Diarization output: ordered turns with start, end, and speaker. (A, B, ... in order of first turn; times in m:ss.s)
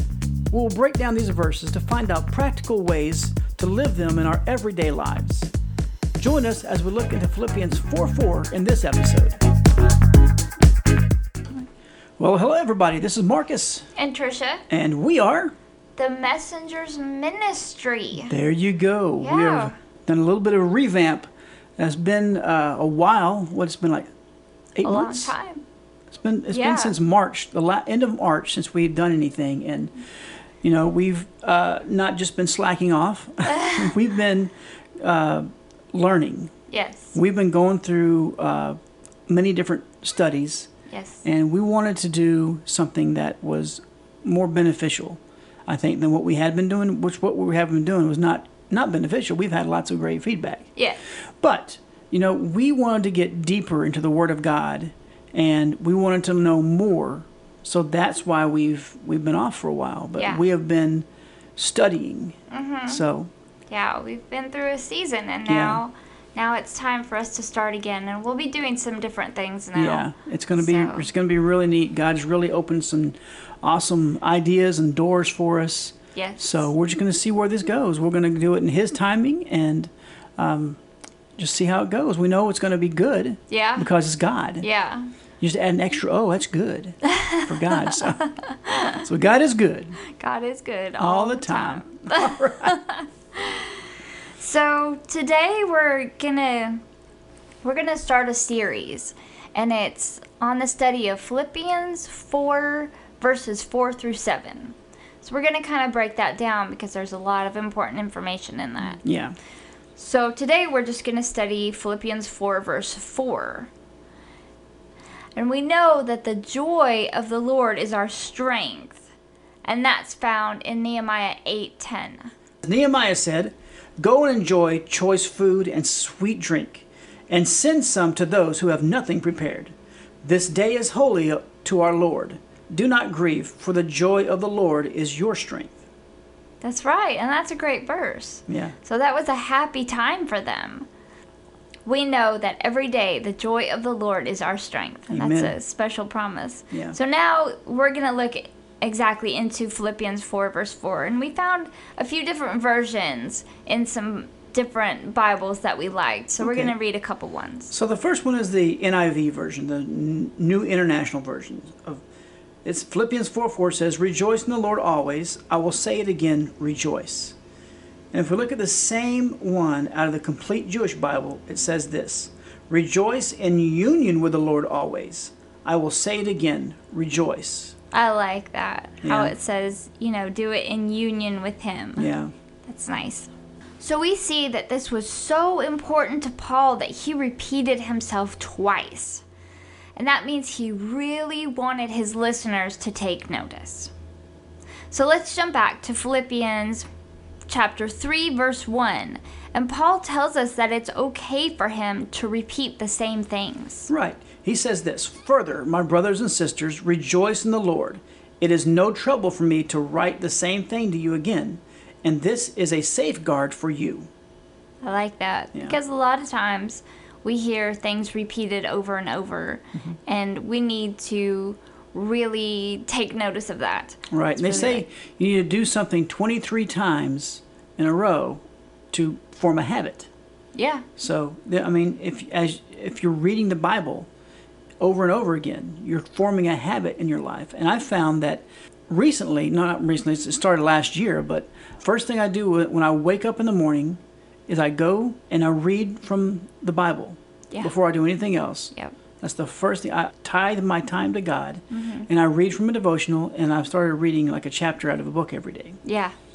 0:00.5-0:05.5 A
0:06.2-0:09.4 A
0:12.2-0:13.9 A
0:14.0-0:14.6 B
0:14.7-0:15.5 A
0:16.0-0:18.3 B
0:18.2-0:24.1 A
0:19.2-0:19.7 B
0:24.7-0:25.3 A
0:24.8-0:25.6 B
0:26.1-0:29.9 A
0:26.5-0:27.0 B
0:30.6-0:36.5 A
0:33.5-0:33.9 B
0:36.7-0:37.1 B
0:37.1-0:40.7 A
0:40.9-0:41.2 B
0:41.2-0:50.7 A
0:51.4-1:02.4 A
1:00.2-1:00.4 B
1:02.5-1:03.0 B
1:02.9-1:03.3 A
1:03.7-1:11.1 B
1:05.5-1:05.8 A
1:09.7-1:20.8 A
1:16.1-1:16.7 B
1:21.4-1:24.6 A
1:23.5-1:23.9 B
1:24.6-1:25.1 B
1:25.4-1:28.2 A
1:27.9-1:29.0 B
1:28.9-1:30.0 A
1:30.1-1:33.8 B
1:31.0-1:32.8 A
1:34.4-1:36.8 B
1:37.6-1:49.0 B
1:49.0-1:49.4 A
1:50.0-1:53.7 B
1:55.3-1:59.0 B
1:59.6-2:02.3 B
2:02.6-2:15.8 A
2:16.6-2:20.9 B
2:18.5-2:18.7 A
2:21.8-2:37.7 B
2:25.1-2:25.6 A
2:26.7-2:27.0 A
2:36.4-2:36.7 A
2:37.7-2:42.0 A
2:42.6-2:47.4 A
2:48.1-2:57.7 A
2:57.9-3:02.1 B
2:59.0-2:59.3 A
3:02.0-3:02.3 A
3:02.6-3:09.2 B
3:10.0-3:13.9 B
3:14.9-3:16.9 B
3:17.5-3:23.9 B
3:23.9-3:34.1 A
3:34.8-3:44.8 B
3:44.1-3:50.1 A
3:50.5-3:50.8 B
3:51.0-3:54.1 A
3:54.8-4:15.8 A
4:11.7-4:12.1 B
4:15.8-4:16.1 B